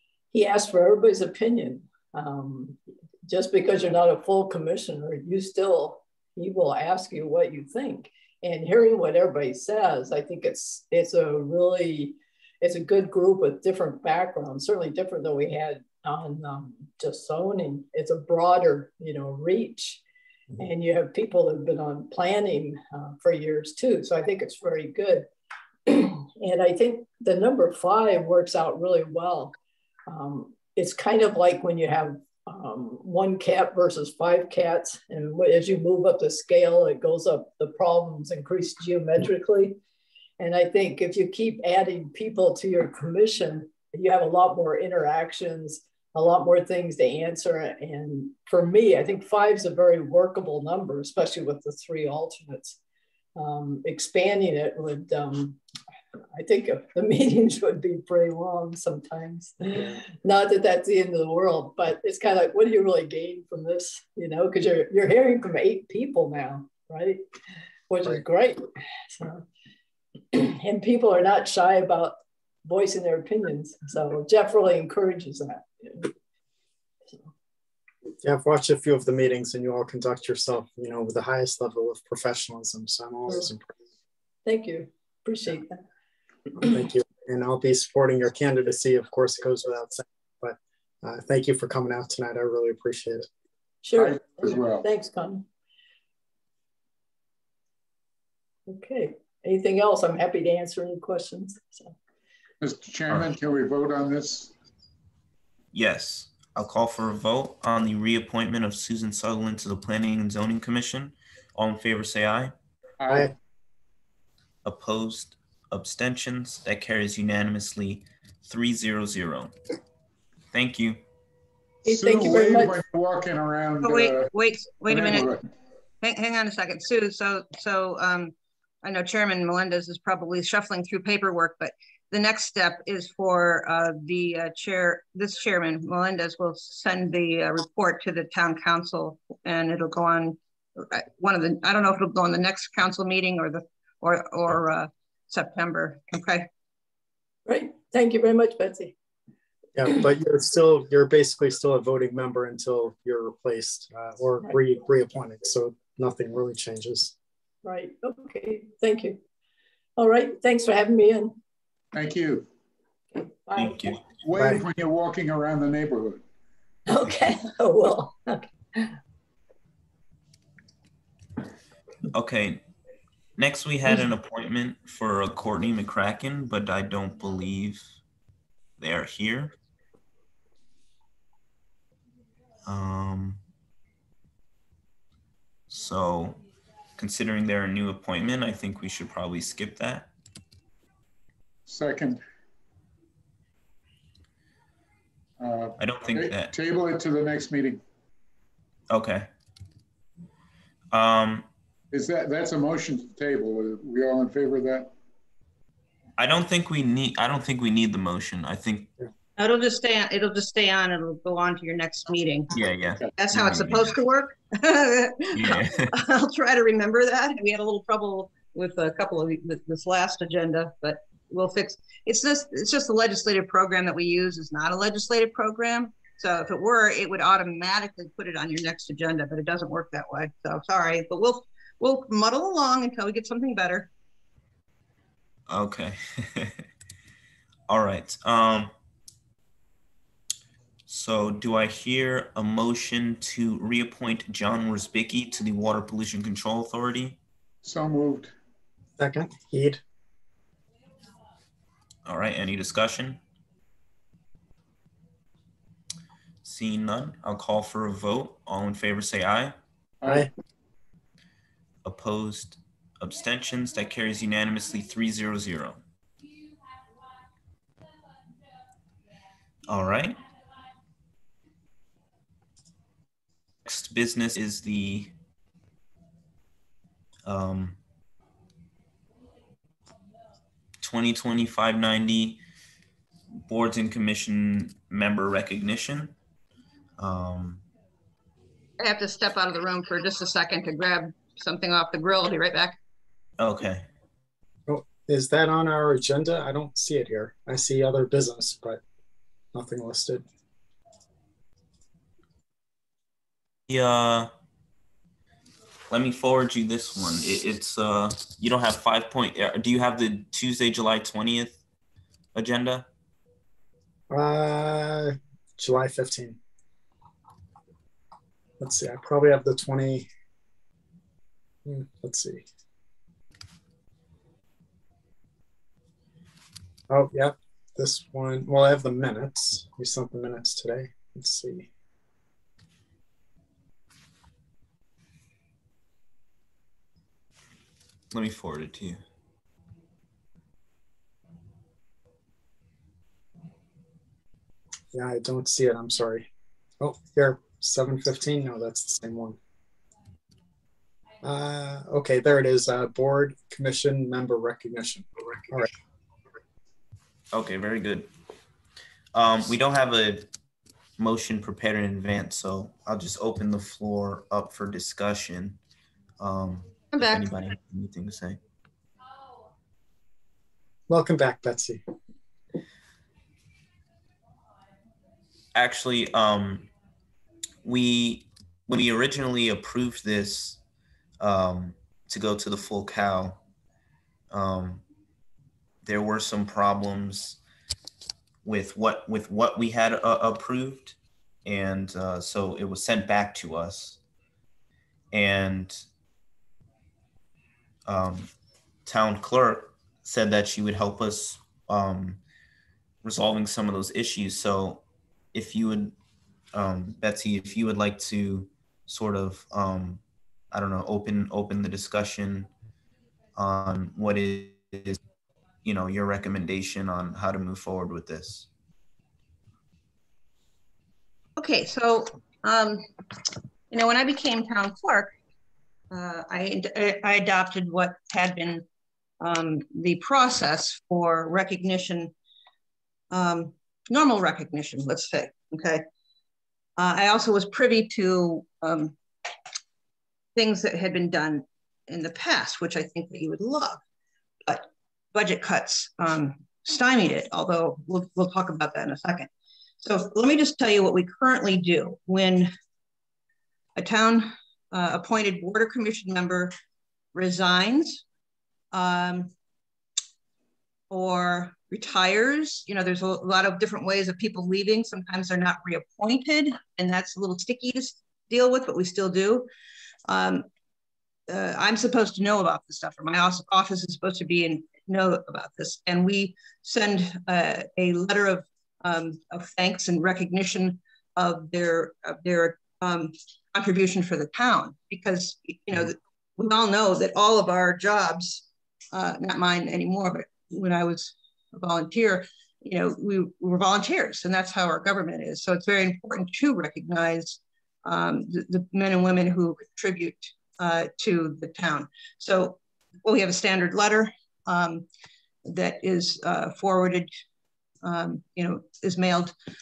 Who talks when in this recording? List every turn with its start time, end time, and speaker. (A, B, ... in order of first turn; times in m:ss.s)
0:00.3-0:20.0 A
0:20.6-0:25.2 A
0:25.8-0:29.5 A
0:30.1-0:39.8 A
0:40.4-0:52.8 A
0:53.4-0:55.6 A
0:56.3-1:07.2 A
1:07.9-1:08.6 A
1:09.2-1:09.4 A
1:10.3-1:16.1 A
1:18.2-1:23.7 B
1:24.4-1:25.8 A
1:26.6-1:33.3 B
1:33.8-1:35.4 A
1:33.9-1:34.9 C
1:38.7-1:41.9 A
1:42.6-1:44.5 C
1:45.7-1:52.5 D
1:53.0-1:53.3 C
1:54.6-1:59.5 D
2:00.5-2:01.0 D
2:01.8-2:02.8 A
2:01.8-2:04.3 C
2:03.8-2:05.3 E
2:04.9-2:05.4 C
2:06.0-2:26.5 E
2:27.4-2:28.9 A
2:29.8-2:37.1 B
2:37.6-2:39.2 A
2:40.0-2:41.3 A
2:41.9-2:42.5 C
2:43.1-2:43.9 A
2:43.6-2:44.0 D
2:44.2-2:46.2 C
2:44.4-2:44.6 B
2:46.9-2:49.0 A
2:52.1-2:52.6 D
2:53.4-2:58.0 D
2:58.8-2:59.5 D
3:02.6-3:03.4 D
3:05.7-3:06.4 D
3:07.0-3:10.1 D
3:11.6-3:12.2 C
3:15.4-3:17.8 C
3:15.8-3:16.5 D
3:18.9-3:19.3 D
3:20.9-3:21.4 D
3:21.9-3:24.9 C
3:26.2-3:28.9 D
3:29.4-3:32.5 E
3:32.5-3:33.9 D
3:33.2-3:53.9 E
3:35.3-3:35.9 D
3:55.5-3:56.6 D
3:57.7-3:58.7 D
4:00.9-4:07.2 D
4:07.6-4:08.3 C
4:09.0-4:09.8 B
4:12.0-4:13.2 D
4:16.4-4:19.5 D
4:20.0-4:20.3 C
4:21.8-4:25.8 D
4:29.7-4:30.2 D
4:33.6-4:35.1 D
4:37.2-4:37.8 D
4:40.8-4:42.4 D
4:43.5-4:46.1 D
4:47.0-4:47.6 D
4:48.8-4:52.8 E
4:53.4-4:53.8 D
4:54.7-4:58.8 B
4:59.5-5:00.2 B
5:03.7-5:04.3 D
5:05.9-5:11.6 D
5:12.3-5:12.9 D
5:14.1-5:16.4 B
5:18.6-5:20.1 B
5:21.6-5:22.4 B
5:26.9-5:31.7 B
5:38.1-5:39.0 D
5:44.9-5:46.3 B
5:46.8-5:49.4 B
5:51.2-5:55.7 B
5:57.3-5:58.1 D
5:59.1-6:00.3 D
6:01.0-6:05.6 D
6:06.2-6:08.4 D
6:06.9-6:07.2 E
6:10.9-6:11.8 B
6:15.5-6:16.7 D
6:17.6-6:20.6 D
6:21.2-6:23.4 D
6:24.3-6:24.8 D
6:25.8-6:27.4 D
6:28.4-6:34.0 D
6:35.1-6:35.8 D
6:37.8-6:38.3 D
6:38.8-6:42.2 D
6:43.0-6:46.0 D
6:46.5-6:52.5 D
6:53.3-6:55.0 D
6:55.6-6:58.5 D
7:01.4-7:02.9 E
7:03.7-7:05.1 E
7:05.9-7:08.6 E
7:09.2-7:12.1 E
7:13.1-7:15.8 E
7:16.8-7:18.9 E
7:20.3-7:23.8 E
7:24.4-7:29.3 E
7:29.8-7:32.5 E
7:33.8-7:36.5 E
7:37.1-7:38.0 E
7:38.7-7:39.3 E
7:40.9-7:49.5 E
7:50.1-7:50.4 E
7:51.3-8:24.8 E
8:25.4-8:27.1 E
8:27.8-8:29.3 E